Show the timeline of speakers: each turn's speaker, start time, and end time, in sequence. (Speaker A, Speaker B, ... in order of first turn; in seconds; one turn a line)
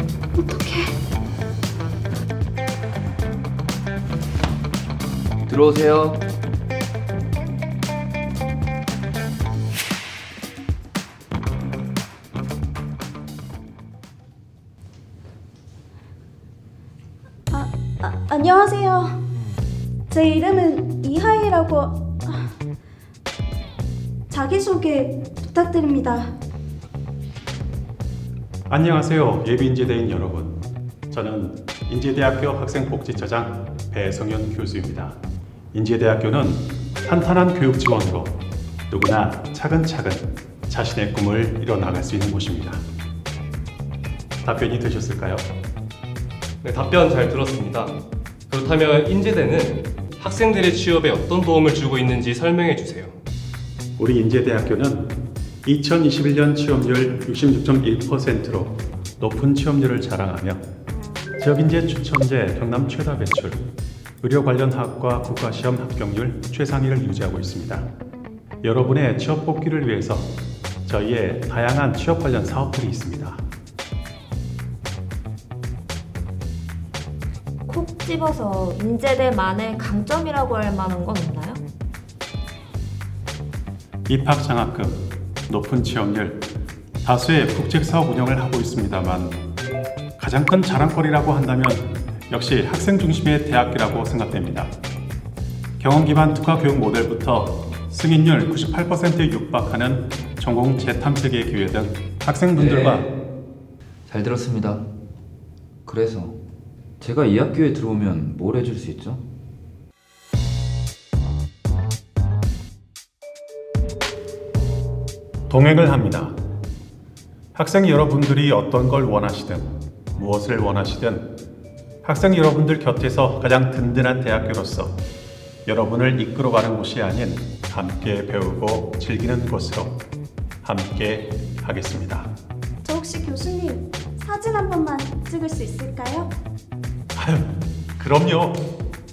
Speaker A: 0.3-0.9
Speaker B: 5.4-6.2
Speaker A: 17.5-19.2
Speaker A: 20.1-22.5
Speaker A: 24.3-26.3
Speaker C: 28.7-35.2
Speaker C: 35.7-42.8
Speaker C: 44.4-45.5
Speaker D: 46.6-47.9
Speaker D: 48.5-53.1
Speaker C: 54.0-60.6
Speaker C: 61.4-63.7
Speaker C: 64.2-67.9
Speaker C: 68.6-70.3
Speaker C: 70.9-73.4
Speaker E: 77.7-81.6
Speaker C: 84.1-86.5
Speaker C: 87.0-89.4
Speaker C: 90.2-94.7
Speaker C: 95.8-103.1
Speaker B: 102.5-103.1
Speaker B: 104.1-104.9
Speaker B: 105.9-106.4
Speaker B: 107.0-109.2
Speaker C: 115.5-116.3
Speaker C: 117.5-121.3
Speaker C: 122.0-125.0
Speaker C: 125.7-130.0
Speaker C: 130.6-132.3
Speaker A: 132.8-136.3
Speaker C: 137.2-138.7